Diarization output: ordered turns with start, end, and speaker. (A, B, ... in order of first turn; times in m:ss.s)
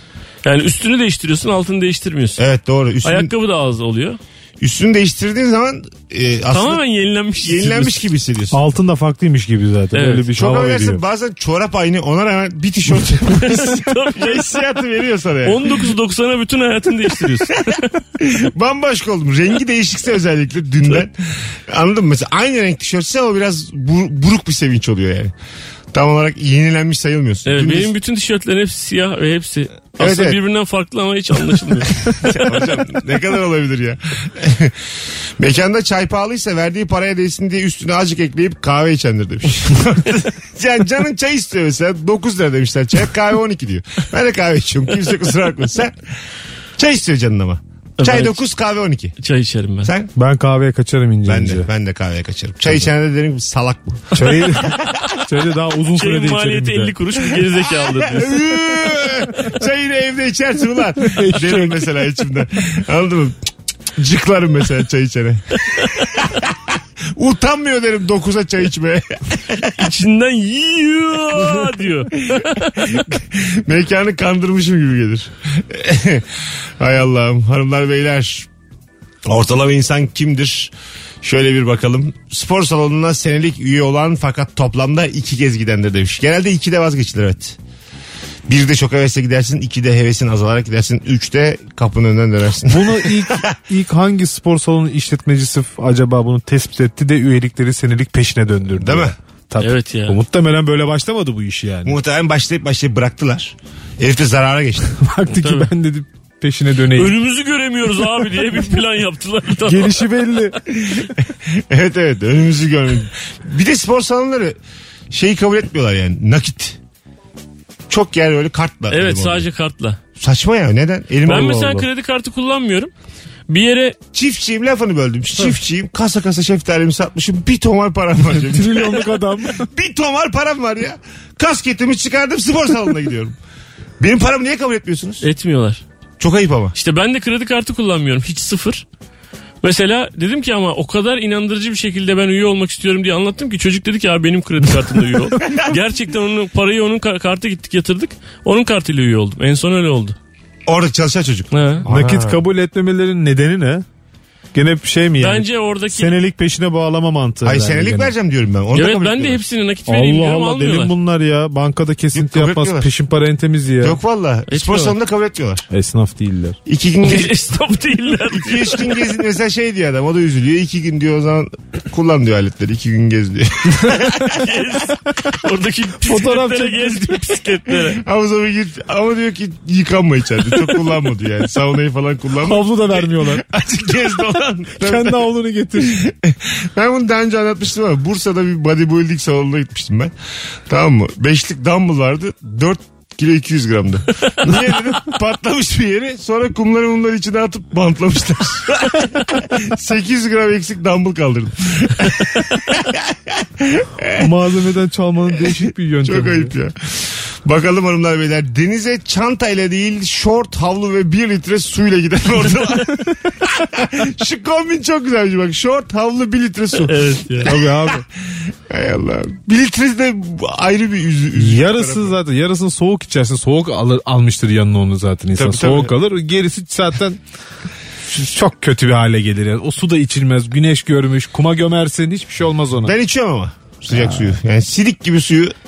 0:00.4-0:02.4 A
0:02.4-0:03.3 B
0:03.0-0:04.2 A
0:04.6-0:06.8 B
0:06.5-0:08.0 A
0:07.4-0:08.6 B
0:08.5-0:11.0 C
0:09.9-0:10.3 A
0:10.3-0:15.9 B
0:13.2-0:14.7 A
0:15.4-0:17.9 A
0:17.5-0:25.3 B
0:25.9-0:27.9 B
0:27.4-0:32.7 A
0:30.0-0:30.4 B
0:32.0-0:34.8 B
0:35.4-0:46.0 B
0:46.8-0:49.2 B
0:48.0-0:48.4 A
0:49.2-0:49.9 A
0:49.8-0:50.1 B
0:50.1-0:51.7 C
0:51.2-0:55.2 B
0:54.1-0:57.0 C
0:56.0-0:58.5 A
0:57.4-1:09.8 B
1:01.0-1:01.7 C
1:01.4-1:01.7 A
1:09.8-1:12.8 A
1:11.4-1:16.3 B
1:16.8-1:18.5 B
1:19.2-1:27.6 B
1:28.5-1:33.5 B
1:32.7-1:42.0 C
1:38.8-1:39.2 B
1:39.6-1:40.2 A
1:41.8-1:45.0 B
1:45.0-1:47.2 C
1:45.3-1:45.7 A
1:46.9-1:50.1 A
1:49.6-1:50.6 C
1:50.7-1:54.6 B
1:55.1-1:56.8 B
1:57.9-1:59.5 B
1:58.9-2:00.0 A
2:00.2-2:01.6 B
2:01.2-2:01.9 C
2:01.2-2:02.9 A
2:03.5-2:04.0 A
2:04.1-2:13.4 B
2:08.2-2:09.7 C
2:14.0-2:15.2 B
2:15.2-2:15.8 A
2:16.2-2:16.7 B
2:16.7-2:18.8 A
2:19.6-2:30.1 A
2:25.4-2:25.7 B
2:30.6-2:32.4 B
2:31.5-2:31.8 A
2:31.8-2:33.8 C
2:34.5-2:38.1 C
2:35.2-2:36.1 A
2:37.4-2:39.4 B
2:38.7-2:40.9 A
2:39.9-2:44.0 C
2:42.1-2:42.9 B
2:43.8-2:45.7 B
2:44.5-2:45.0 A
2:45.7-2:46.6 C
2:46.6-2:47.3 B
2:47.0-2:49.1 A
2:48.3-2:54.4 B
2:53.8-2:54.1 C
2:53.9-2:58.0 A
2:56.0-2:57.3 C
2:57.7-3:10.1 B
3:02.4-3:03.4 C
3:04.8-3:06.0 C
3:10.7-3:24.3 B
3:24.2-3:26.5 C
3:25.4-3:42.1 B
3:36.8-3:37.5 A
3:37.4-3:38.0 C
3:41.4-3:47.2 C
3:45.4-3:45.9 B
3:48.1-3:52.9 C
3:52.8-3:55.5 B
3:53.9-3:54.3 C